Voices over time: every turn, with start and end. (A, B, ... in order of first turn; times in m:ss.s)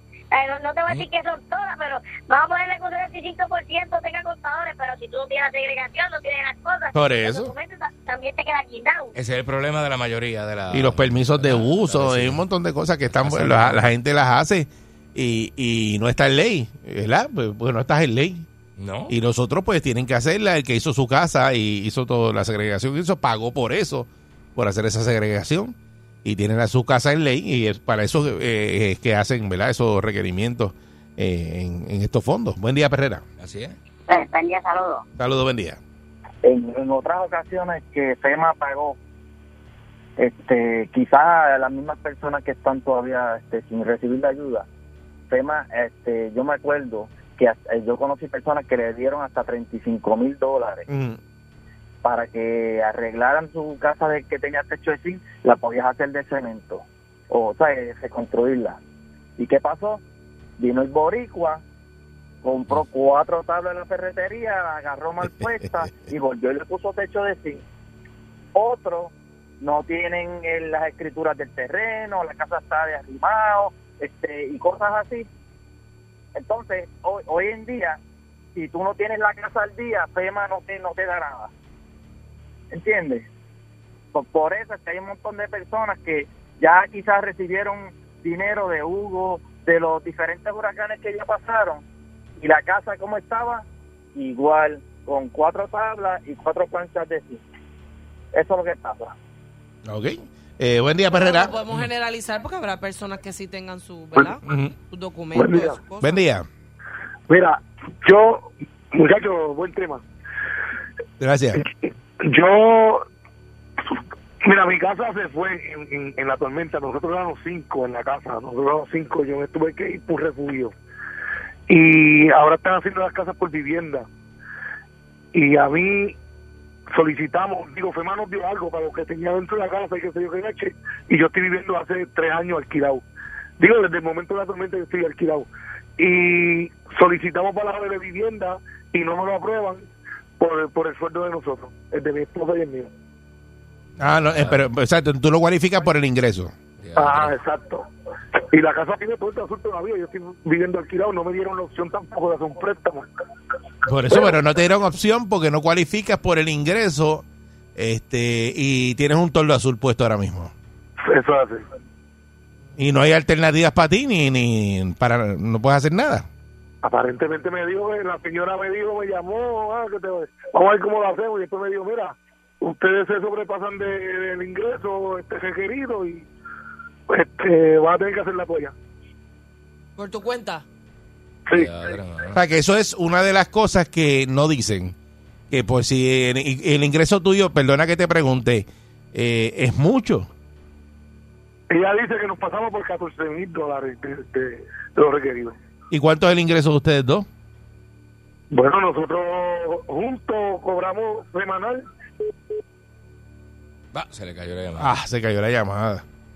0:00.3-0:09.1 A
0:06.9-0:07.5 B
0:09.2-0:12.4 C
0:10.7-0:18.5 B
0:13.1-0:13.9 C
0:18.8-0:19.2 C
0:19.1-0:33.2 B
0:33.4-0:33.8 C
0:34.1-0:35.0 A
0:35.2-0:35.8 B
0:36.4-0:39.0 D
0:40.2-0:44.7 D
0:45.3-0:50.9 D
0:50.9-0:51.2 B
0:52.0-0:58.8 D
0:59.4-1:00.0 D
1:00.6-1:01.6 D
1:02.4-1:07.6 D
1:08.5-1:15.3 D
1:16.4-1:18.0 D
1:18.6-1:21.5 D
1:22.7-1:23.3 D
1:24.1-1:31.8 D
1:32.4-1:37.4 D
1:38.3-1:39.2 D
1:39.8-1:41.5 B
1:41.1-1:46.2 E
1:44.4-1:44.7 B
1:45.3-1:45.8 F
1:46.0-1:46.5 B
1:47.3-1:50.0 F
1:51.2-1:51.6 B
1:51.6-1:53.1 F
1:54.4-2:00.7 F
2:01.7-2:04.1 F
2:05.3-2:06.2 F
2:06.9-2:13.0 F
2:13.6-2:19.8 F
2:20.4-2:22.9 F
2:24.0-2:26.5 B
2:24.0-2:24.7 C
2:26.8-2:27.4 C
2:27.0-2:27.9 F
2:28.5-2:33.1 F
2:33.9-2:37.2 B
2:37.8-2:40.5 B
2:41.0-2:41.7 F
2:42.8-2:46.3 B
2:46.8-2:56.3 F
2:57.1-2:58.7 F
3:00.0-3:00.6 E
3:01.5-3:02.4 C
3:02.4-3:05.0 B
3:05.5-3:10.3 B
3:11.7-3:15.6 F
3:15.9-3:17.3 B
3:18.5-3:21.8 F
3:23.9-3:24.9 C
3:24.8-3:26.0 B